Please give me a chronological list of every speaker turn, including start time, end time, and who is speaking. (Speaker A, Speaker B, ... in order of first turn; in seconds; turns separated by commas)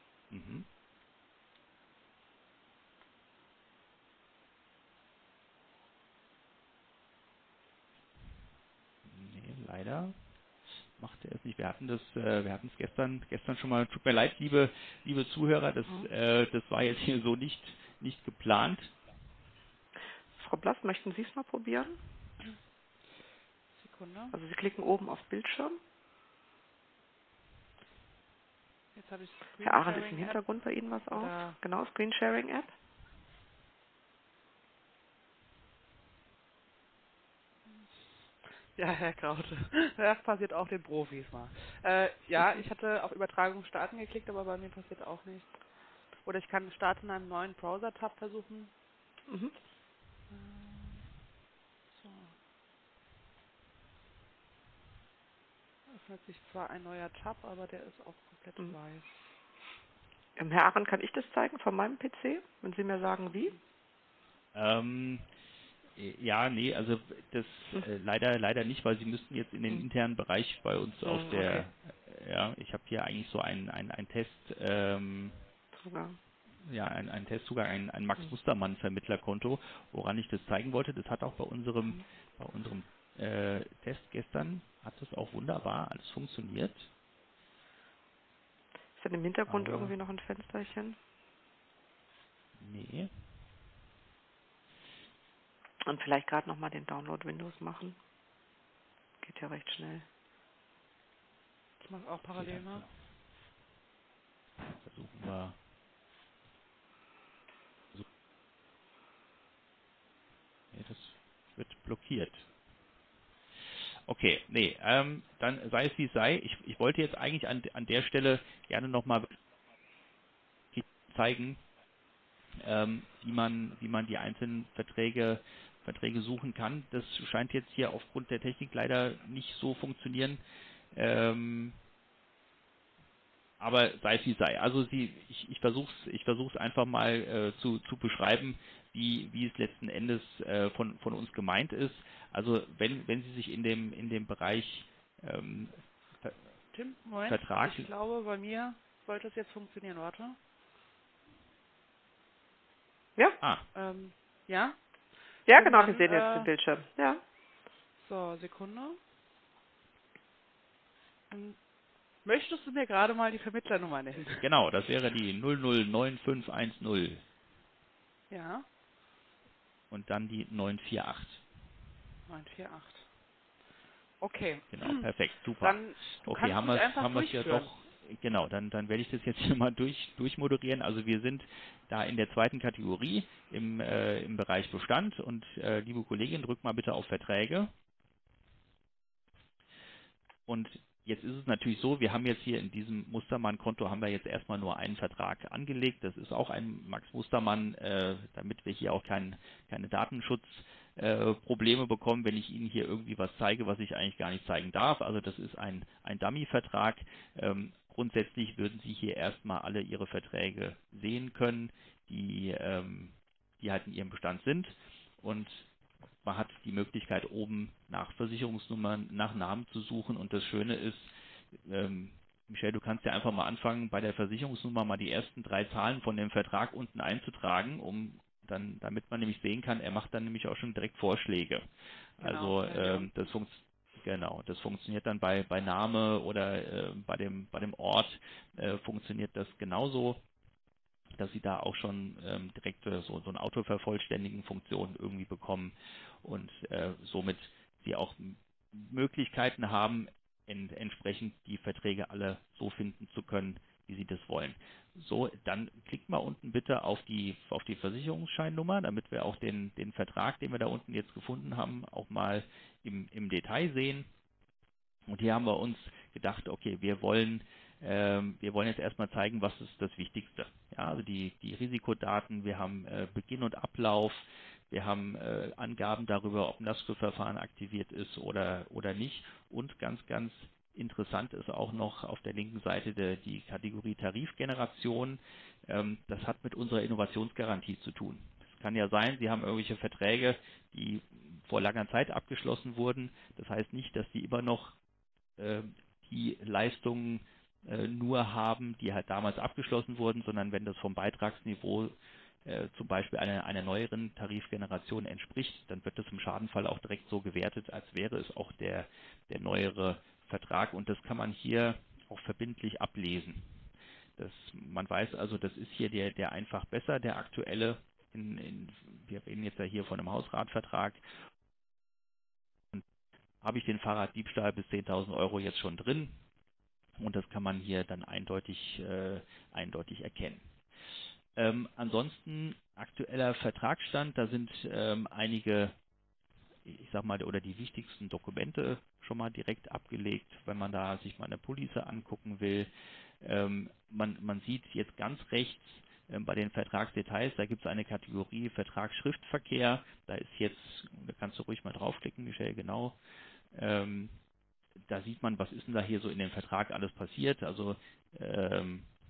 Speaker A: 0.3-0.7, Speaker A: 9.1-10.1, Speaker A: 11.0-18.9, Speaker B: 20.4-22.0, Speaker C: 23.8-24.3, Speaker B: 24.3-25.8, Speaker C: 28.9-30.4, Speaker B: 29.6-32.7, Speaker C: 31.1-31.6, Speaker C: 38.7-45.5, Speaker C: 46.2-48.7, Speaker B: 49.3-49.5, Speaker C: 50.3-51.1, Speaker C: 51.9-52.3, Speaker C: 55.9-59.2, Speaker B: 60.4-63.6, Speaker A: 64.5-65.3, Speaker A: 66.0-75.4, Speaker B: 71.0-71.7, Speaker B: 75.8-76.2, Speaker A: 76.7-86.9, Speaker B: 89.0-91.0, Speaker A: 89.5-89.9, Speaker A: 92.6-93.1, Speaker B: 95.8-98.0, Speaker B: 99.2-100.1, Speaker C: 101.8-102.8, Speaker A: 102.4-102.9, Speaker A: 104.8-105.6, Speaker A: 110.7-112.5, Speaker A: 114.1-119.3, Speaker A: 120.7-121.6, Speaker A: 122.6-130.4, Speaker A: 130.9-131.8, Speaker A: 133.6-146.4, Speaker C: 146.7-150.4, Speaker A: 147.2-147.9, Speaker C: 153.7-154.8, Speaker C: 155.4-156.5, Speaker B: 155.5-157.2, Speaker C: 158.0-159.0, Speaker C: 161.3-161.6, Speaker C: 162.2-164.4, Speaker A: 164.4-167.2, Speaker C: 168.3-168.7, Speaker A: 169.9-171.4, Speaker C: 172.3-173.1, Speaker C: 174.2-175.1, Speaker A: 174.7-187.7, Speaker C: 175.6-177.7, Speaker A: 190.5-215.7, Speaker A: 216.2-221.1, Speaker A: 221.6-231.6, Speaker A: 232.2-240.2, Speaker C: 232.2-233.1, Speaker A: 241.2-264.1, Speaker A: 265.1-294.8, Speaker A: 295.4-301.9, Speaker A: 302.4-313.5, Speaker A: 314.2-321.0, Speaker A: 323.4-326.2, Speaker A: 327.0-330.4, Speaker A: 331.4-335.7, Speaker A: 336.6-342.7, Speaker A: 343.2-353.0, Speaker A: 353.5-354.1, Speaker A: 354.9-358.9